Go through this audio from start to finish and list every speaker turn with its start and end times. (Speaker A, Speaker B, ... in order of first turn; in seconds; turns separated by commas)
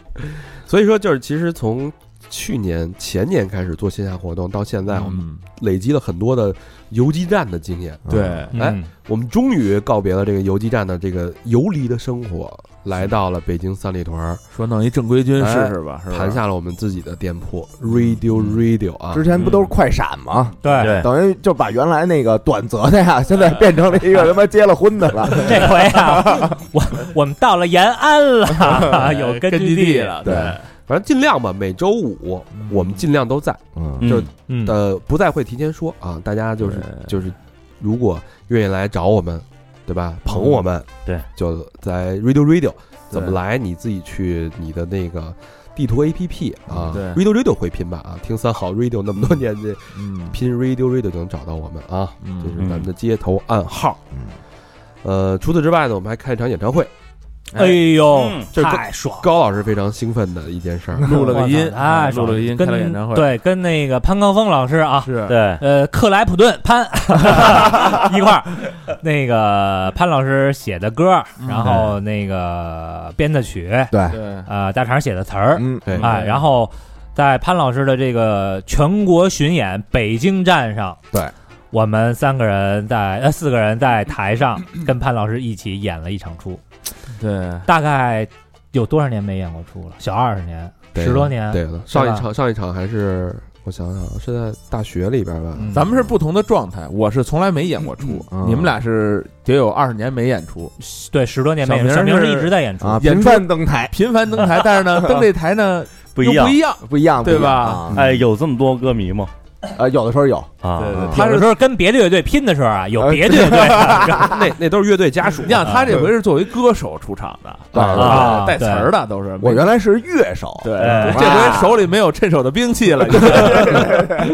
Speaker A: 0.2-14.4, Speaker B: 4.9-5.5, Speaker C: 8.1-8.5, Speaker B: 8.1-8.6, Speaker D: 8.5-8.9, Speaker B: 14.5-16.4, Speaker A: 15.6-19.3, Speaker B: 18.0-18.5, Speaker C: 19.1-26.5, Speaker E: 19.3-19.7, Speaker D: 20.6-21.0, Speaker E: 20.7-21.1, Speaker D: 25.4-30.2, Speaker B: 28.7-30.7, Speaker C: 30.2-30.6, Speaker A: 30.9-54.0, Speaker B: 32.5-33.0, Speaker C: 33.8-34.0, Speaker E: 34.0-34.3, Speaker D: 34.5-34.8, Speaker B: 36.6-37.2, Speaker B: 40.3-40.6, Speaker B: 43.1-43.4, Speaker C: 46.7-47.0, Speaker B: 46.9-47.2, Speaker B: 49.9-50.4, Speaker B: 52.2-52.6, Speaker E: 52.6-52.9, Speaker A: 55.0-56.9, Speaker B: 57.5-58.0, Speaker D: 57.5-59.3, Speaker E: 58.1-58.5, Speaker A: 58.5-61.2, Speaker B: 61.0-63.4, Speaker D: 61.2-81.0, Speaker B: 65.0-65.4, Speaker E: 65.3-65.6, Speaker B: 71.4-72.0, Speaker C: 73.9-74.2, Speaker B: 74.1-74.5, Speaker C: 75.5-75.9, Speaker A: 75.9-76.1, Speaker B: 76.0-76.4, Speaker D: 81.7-86.6, Speaker B: 87.1-87.7, Speaker D: 87.7-92.3, Speaker A: 90.9-96.1, Speaker B: 95.7-100.7, Speaker C: 98.3-98.8, Speaker D: 100.8-103.1, Speaker B: 101.6-107.9, Speaker C: 102.8-104.0, Speaker E: 106.2-106.6, Speaker C: 106.8-108.0, Speaker A: 107.9-108.2, Speaker E: 107.9-109.3, Speaker C: 109.8-111.2, Speaker E: 110.6-111.1, Speaker B: 110.8-111.6, Speaker D: 111.1-114.4, Speaker C: 113.0-114.3, Speaker A: 114.2-115.9, Speaker B: 115.4-119.7, Speaker A: 117.7-118.2, Speaker C: 117.8-118.3, Speaker D: 118.0-118.9, Speaker C: 119.4-121.8, Speaker B: 120.6-124.1, Speaker D: 120.8-121.2, Speaker E: 120.8-121.3, Speaker C: 123.2-124.2